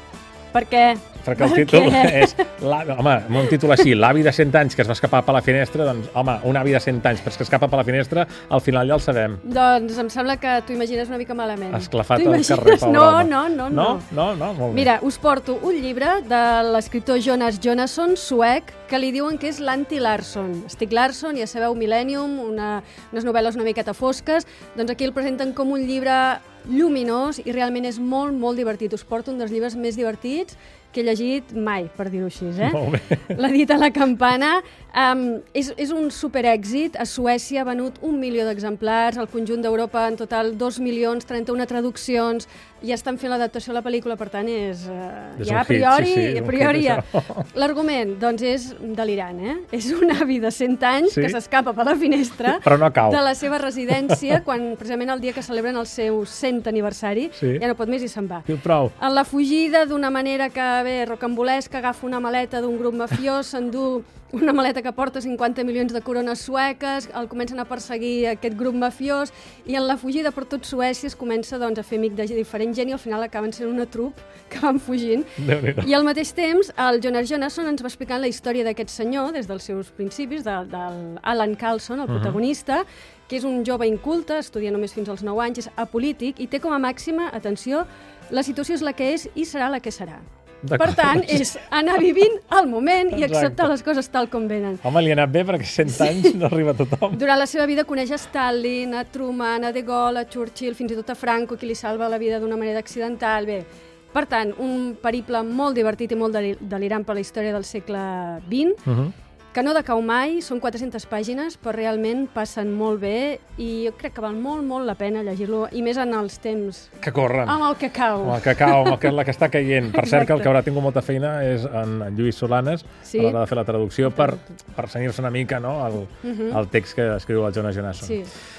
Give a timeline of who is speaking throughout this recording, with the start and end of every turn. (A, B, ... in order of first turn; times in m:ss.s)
0:00.5-0:02.4 A
0:01.2-0:09.4 B
0:09.4-0:14.1 A
0:11.7-0:14.9 B
0:14.7-1:30.2 A
0:32.6-0:33.3 B
0:45.4-0:47.4 B
0:51.1-0:51.4 B
0:52.5-0:53.2 B
0:58.5-0:58.9 B
1:15.4-1:15.9 B
1:30.6-1:31.5 B
1:30.8-1:34.8 A
1:33.1-1:33.7 B
1:34.8-1:37.2 B
1:36.0-1:36.3 A
1:37.1-1:48.8 A
1:48.9-1:49.1 B
1:49.5-1:57.0 A
1:57.0-1:57.6 B
1:57.5-1:59.1 A
1:58.2-2:08.2 B
1:59.9-2:00.5 A
2:03.0-2:03.4 A
2:04.2-2:04.5 A
2:06.2-2:06.6 A
2:08.0-2:08.3 A